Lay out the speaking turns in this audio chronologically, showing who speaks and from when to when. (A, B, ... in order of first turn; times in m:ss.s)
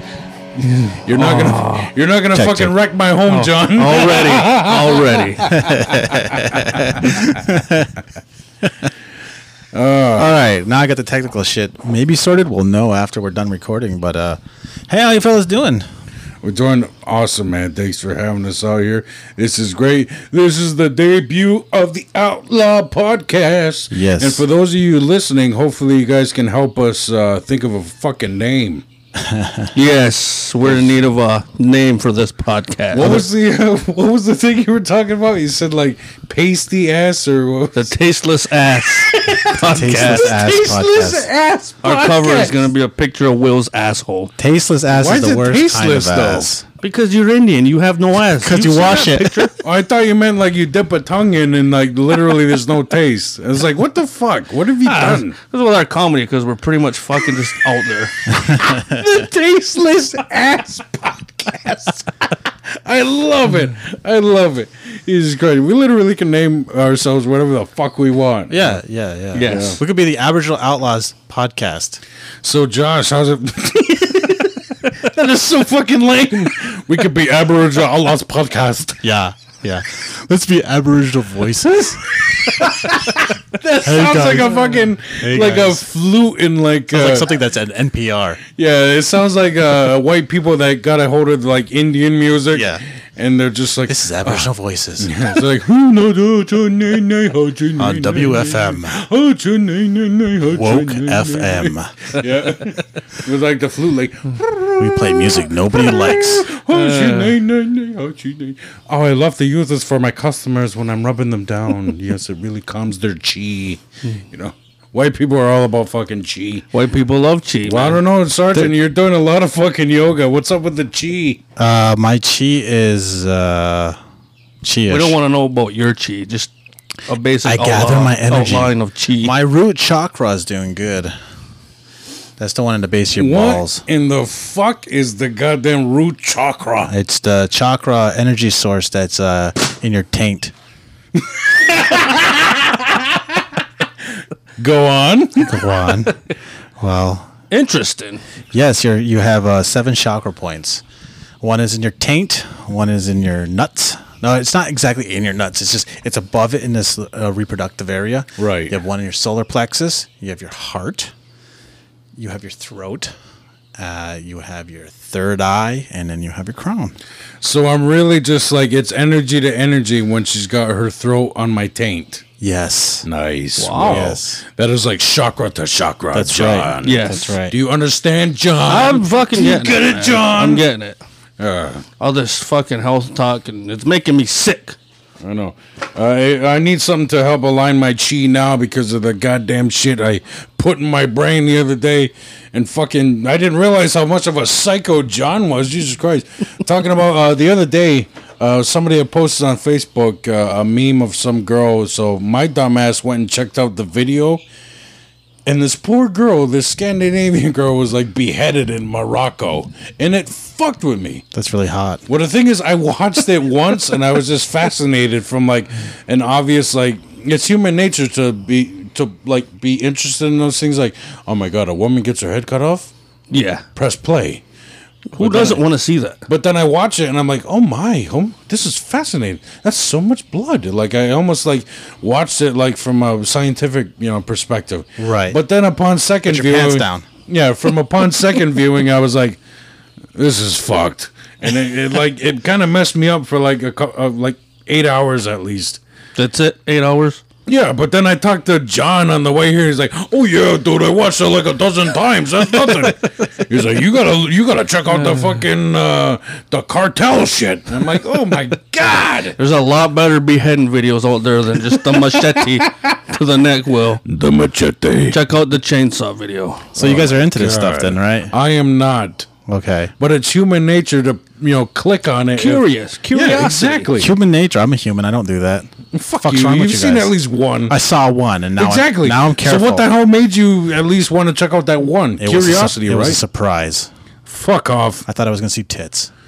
0:00.6-0:01.9 A
0:00.9-0:07.3 B
0:02.3-0:02.7 C
0:03.7-0:05.6 A
0:05.5-0:08.0 C
0:08.6-0:08.9 C
0:09.7-0:10.3 B
0:10.2-0:15.8 C
0:16.4-0:28.8 B
0:23.9-0:24.4 C
0:29.2-0:29.7 C
0:29.7-0:33.2 A
0:30.6-0:31.0 B
0:32.9-0:37.9 B
0:37.7-0:40.4 A
0:39.0-0:42.7 B
0:39.6-0:41.3 C
0:41.8-0:44.3 A
0:44.4-0:46.6 C
0:44.9-0:46.5 B
0:46.8-0:49.5 A
0:48.4-0:49.5 C
0:49.6-0:55.3 B
0:54.8-0:58.1 A
0:58.3-1:08.8 B
0:58.5-0:59.0 C
1:08.5-1:12.0 C
1:09.3-1:09.8 A
1:09.4-1:09.8 B
1:12.4-1:19.0 B
1:19.0-1:22.9 C
1:22.2-1:27.3 B
1:23.8-1:24.6 C
1:25.2-1:25.8 C
1:26.9-1:28.4 C
1:28.6-1:56.6 B
1:32.5-1:32.8 C
1:33.9-1:35.4 C
1:37.8-1:39.0 C
1:40.4-1:42.2 C
1:44.8-1:46.5 C
1:46.7-1:47.3 A
1:56.7-1:58.0 A
1:57.6-2:01.4 B
2:01.6-2:04.0 C
2:04.6-2:05.2 C
2:04.9-2:06.5 A
2:07.1-2:09.3 A
2:07.4-2:11.1 C
2:12.4-2:13.8 C
2:13.1-2:16.9 B
2:16.9-2:20.5 C
2:21.3-2:23.2 B
2:24.6-2:26.0 B
2:25.4-2:26.1 C
2:26.8-2:27.3 C
2:27.5-2:28.2 A
2:28.5-2:30.8 C
2:31.4-2:41.1 C
2:38.4-2:38.8 B
2:42.2-2:43.1 C
2:43.8-2:47.0 C
2:47.4-2:52.2 B
2:52.4-2:53.0 C
2:53.0-3:00.6 B
2:53.6-2:54.1 A
2:53.8-2:54.4 C
2:56.1-2:57.6 C
2:56.8-2:57.3 A
2:58.7-3:01.0 A
3:01.4-3:01.8 B
3:02.0-3:04.8 A
3:05.2-3:24.4 B
3:25.4-3:31.2 B
3:31.3-3:32.0 C
3:32.1-3:42.9 B
3:43.3-3:43.6 A
3:43.8-3:44.4 B
3:45.1-3:46.2 A
3:45.2-3:45.6 B
3:46.3-3:59.4 B
3:55.0-3:55.4 C
3:56.3-3:57.0 C
4:00.1-4:05.8 B
4:06.2-4:07.2 A
4:07.5-4:19.4 B
4:19.4-4:24.0 A
4:21.7-4:22.9 B
4:24.0-4:25.2 B
4:25.1-4:26.7 A
4:26.7-4:28.3 C
4:26.8-4:29.3 B
4:29.5-4:29.9 C
4:30.0-4:34.1 B
4:32.4-4:33.9 A
4:33.9-4:37.1 C
4:35.9-4:37.8 B
4:37.7-4:39.9 C
4:38.6-4:43.2 B
4:42.2-4:43.9 C
4:44.3-4:45.0 B
4:45.0-4:46.1 C